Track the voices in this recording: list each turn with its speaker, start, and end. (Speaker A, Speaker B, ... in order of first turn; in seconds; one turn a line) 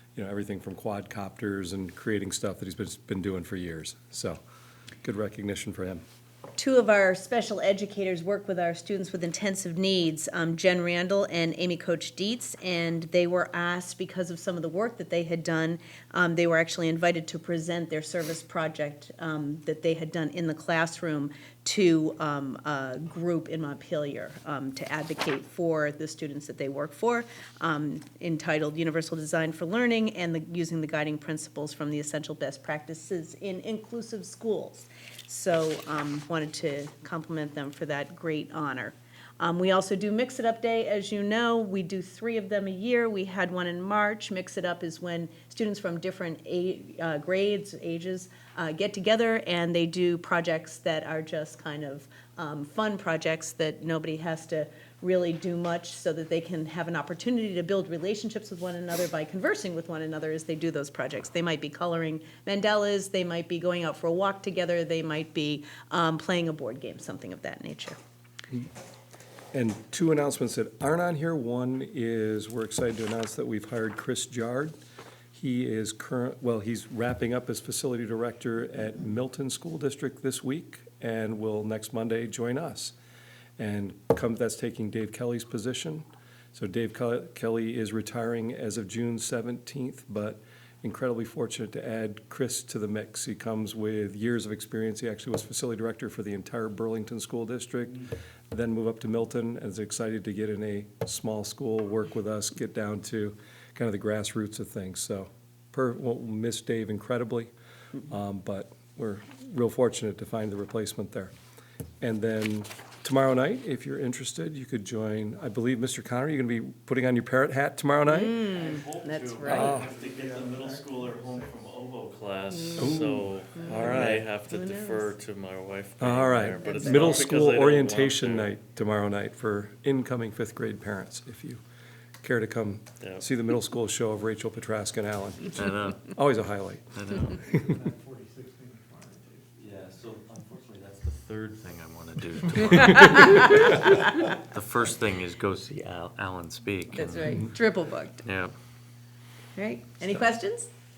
Speaker A: 0.2-4.4
Speaker A: 5.0-6.0
Speaker B: 6.6-68.0
Speaker A: 69.5-74.8
Speaker A: 75.3-83.0
Speaker A: 83.6-107.5
Speaker A: 108.1-111.3
Speaker A: 112.0-118.4
Speaker B: 118.1-119.8
Speaker C: 118.5-128.5
Speaker A: 119.5-119.9
Speaker D: 119.7-121.7
Speaker B: 122.5-125.1
Speaker A: 122.8-124.2
Speaker A: 126.0-131.6
Speaker B: 126.6-127.3
Speaker A: 132.2-137.7
Speaker C: 133.0-133.2
Speaker C: 135.5-136.1
Speaker C: 136.9-137.4
Speaker D: 137.5-139.5
Speaker C: 139.6-147.4
Speaker B: 146.9-148.2
Speaker C: 148.2-148.5
Speaker B: 149.6-150.7